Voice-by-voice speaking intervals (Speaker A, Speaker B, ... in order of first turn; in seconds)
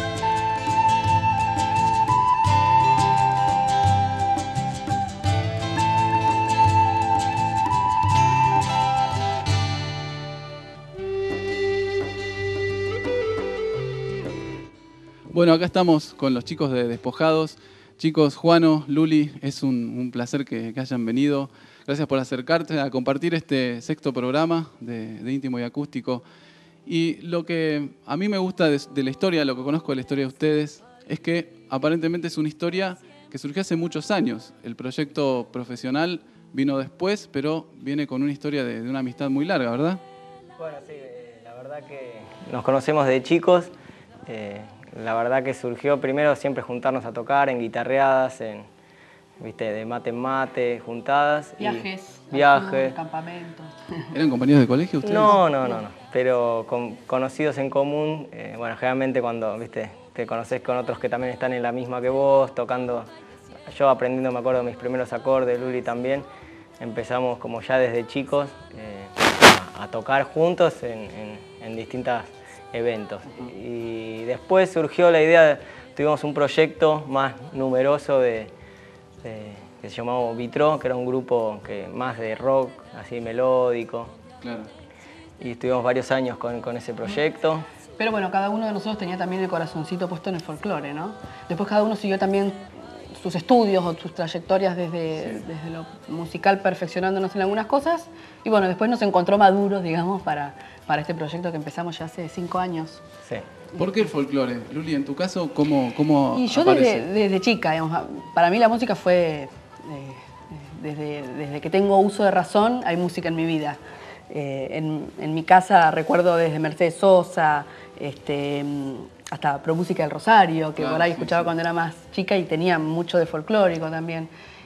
Speaker A: 15.3-26.2, 26.8-40.0, 54.1-55.4, 84.4-84.7, 95.2-95.5, 103.8-107.1, 120.8-121.5
Speaker B: 40.6-43.7, 44.3-48.7, 49.4-53.0, 55.0-63.1, 63.7-66.2, 66.8-78.5, 79.2-84.1, 85.4-87.6
Speaker C: 51.6-54.1, 55.2-55.8, 88.0-103.0, 106.3-113.8, 114.3-124.3